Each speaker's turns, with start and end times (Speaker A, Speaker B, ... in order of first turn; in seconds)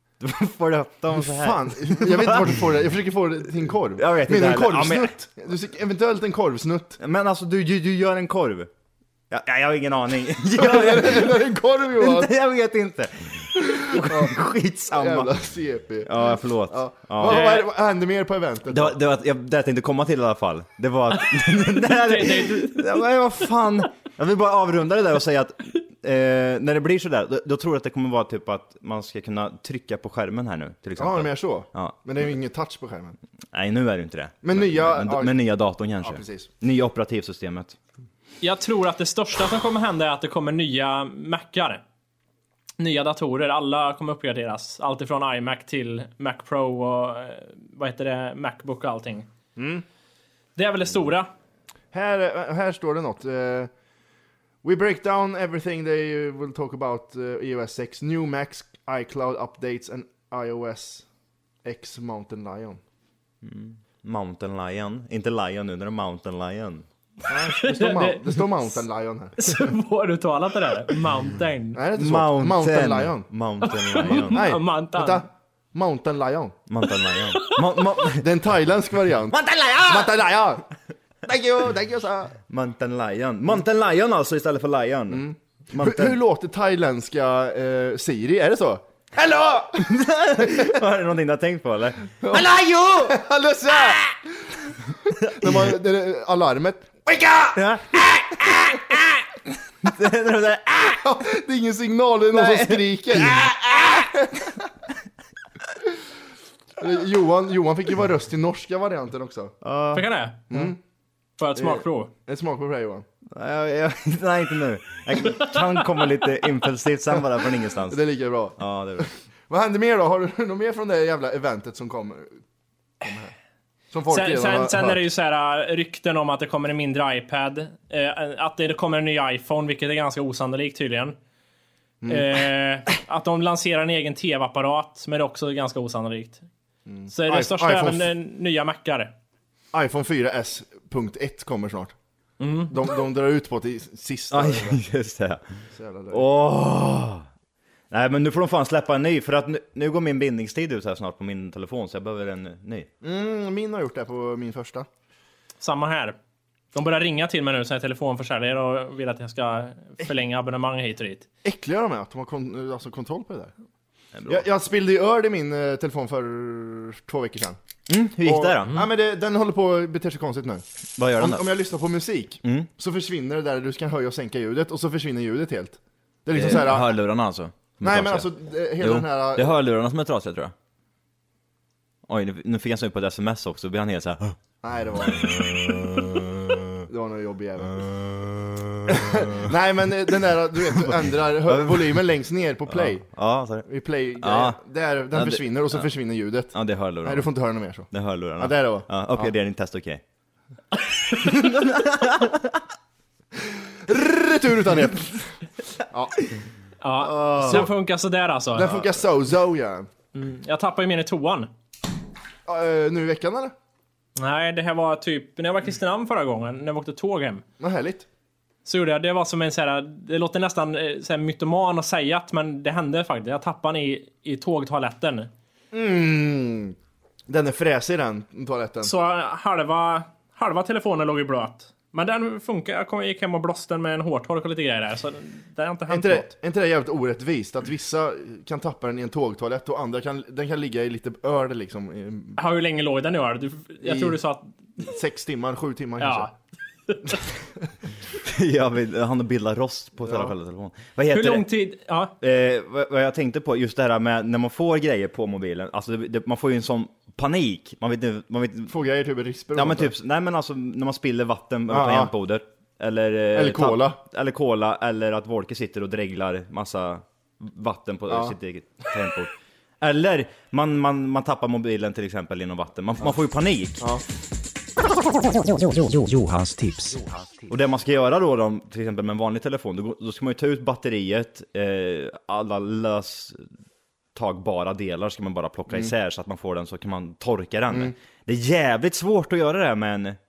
Speaker A: 0.2-2.6, 3.9-5.2, 7.0-8.7, 9.3-11.4, 11.9-15.4, 16.0-17.6, 18.7-32.0, 33.5-37.8, 63.4-66.9, 71.9-74.5, 76.7-78.3, 82.5-86.2, 89.7-92.5, 95.2-95.7, 97.5-98.9, 99.8-101.0, 102.3-104.1, 109.6-110.1, 113.3-118.0, 118.6-119.1, 144.3-145.4, 146.1-147.3, 147.9-152.9, 164.2-164.4, 167.9-168.8, 171.0-171.5, 172.4-172.7, 176.3-180.5, 182.1-184.4, 185.1-186.6, 187.8-188.3, 188.9-189.5, 191.4-192.0, 192.7-193.7, 194.2-194.6, 195.1-195.9, 196.5-197.3, 197.9-200.0, 201.1-202.6, 248.2-251.5, 252.2-258.7, 259.5-273.9, 277.5-283.4, 284.1-290.2
Speaker B: 1.1-7.0, 10.5-12.3, 13.6-14.3, 14.9-19.0, 31.0-33.2, 34.4-35.4, 36.0-36.5, 49.6-49.8, 51.9-53.7, 54.6-61.1, 61.6-62.8, 67.3-69.7, 71.7-73.3, 74.2-76.6, 78.2-80.7, 81.2-82.3, 85.1-89.9, 90.4-90.8, 92.2-94.0, 95.0-97.5, 101.0-104.5, 106.8-109.5, 110.5-110.8, 111.6-113.0, 117.9-122.4, 123.0-123.3, 123.9-125.0, 132.0-132.3, 136.9-138.1, 139.7-141.9, 142.7-144.8, 145.7-146.3, 153.0-154.9, 161.4-163.5, 164.3-167.6, 168.2-176.9, 177.8-179.5, 184.6-185.5, 186.8-187.8, 188.9-193.1, 193.6-199.3, 203.4-206.2, 207.0-207.7, 208.5-209.9, 212.4-213.5, 217.6-218.1, 225.7-226.8, 227.3-228.9, 235.9-242.4, 243.8-244.2, 244.8-246.3, 250.0-250.3, 258.7-259.9, 261.7-262.1, 263.3-264.0, 268.1-268.3
Speaker C: 17.3-17.6, 21.4-23.1, 38.4-41.8, 42.8-49.3, 50.6-51.3, 67.6-68.6, 69.4-71.8, 73.7-75.2, 109.9-110.7, 111.4-112.1, 124.1-131.2, 132.1-136.4, 137.1-139.1, 142.4-142.8, 155.6-156.2, 156.7-161.3, 206.8-208.8, 210.1-211.5, 214.2-217.4, 218.7-225.3, 228.8-236.3, 242.4-244.8, 246.0-246.3, 246.9-247.2, 251.1-252.2
Speaker D: 79.5-80.0, 92.5-93.1, 275.6-277.1